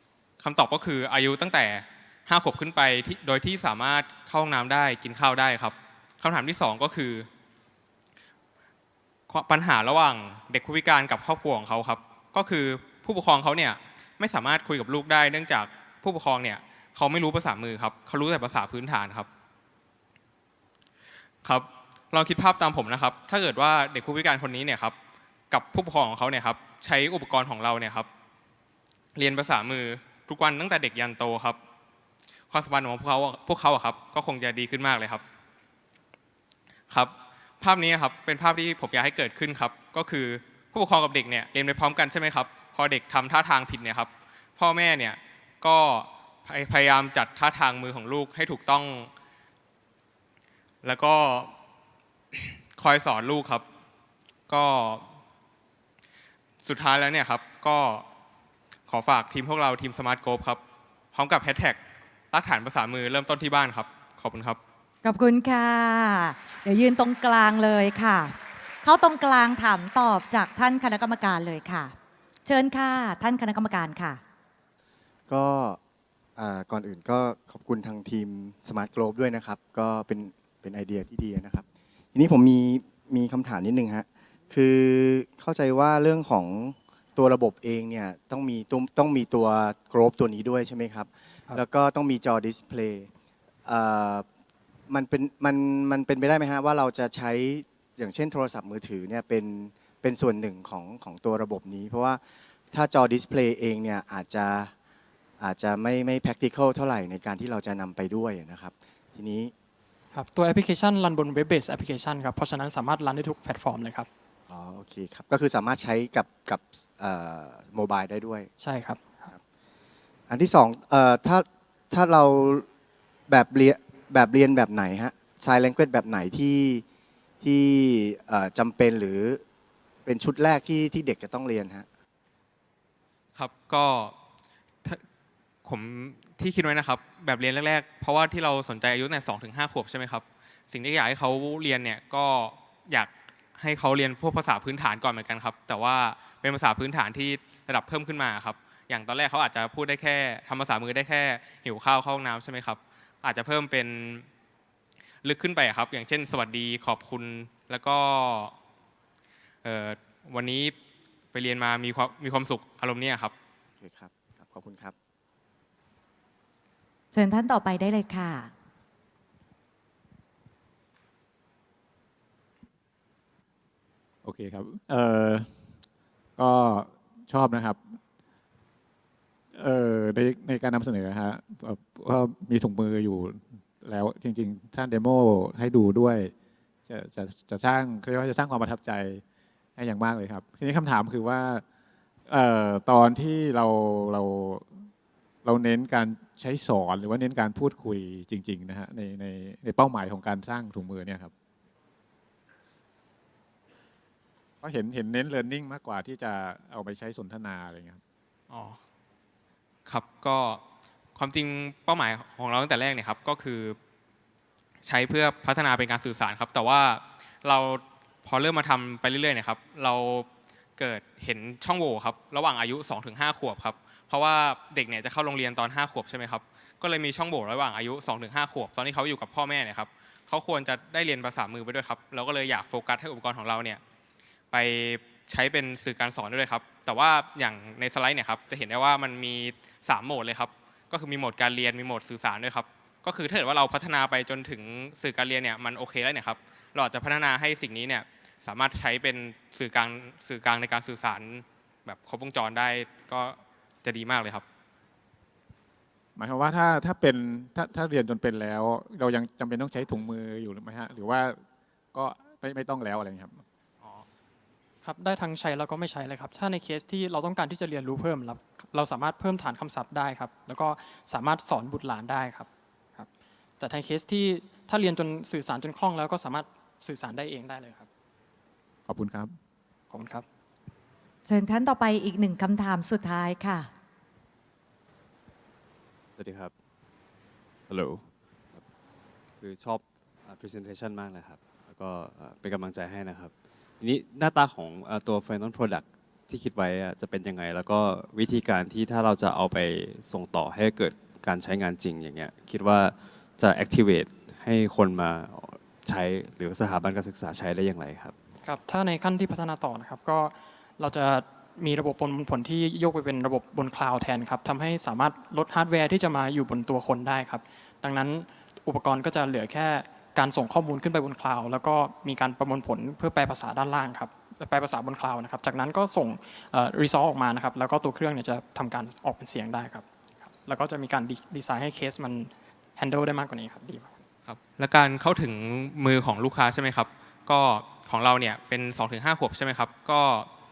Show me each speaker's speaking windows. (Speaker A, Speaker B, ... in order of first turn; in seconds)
Speaker A: 0.4-7.3, 9.3-19.3, 21.4-24.9, 25.5-28.1, 29.1-31.6, 32.5-35.2, 36.9-49.1, 50.8-51.5, 52.3-53.6, 54.5-55.1, 56.6-58.0, 58.9-60.6, 61.1-61.8, 62.3-64.6, 133.3-134.1, 135.6-154.3, 155.2-158.5, 159.6-160.7, 161.3-163.3, 208.5-208.8, 209.9-210.6, 211.2-213.8, 214.8-233.8, 234.5-254.4, 334.3-340.3
Speaker B: 65.0-71.9, 72.5-74.2, 167.1-168.5, 281.2-283.7
Speaker C: 75.3-75.8, 76.4-93.1, 93.6-94.2, 94.9-102.2, 102.7-104.7, 105.4-109.5, 114.5-118.5, 120.3-122.7, 123.3-126.8, 127.4-129.4, 130.1-131.8, 163.8-164.9
Speaker D: 110.1-114.1, 118.6-119.3, 264.8-277.9, 279.9-280.2, 308.4-334.0
Speaker E: 174.2-175.5, 176.4-178.0, 179.5-186.3, 186.9-189.2, 189.8-191.6, 192.3-194.9, 195.4-201.3, 204.6-208.0, 256.1-261.4, 261.9-263.4, 278.9-279.3
Speaker F: 286.2-286.5, 287.7-288.6, 289.4-308.1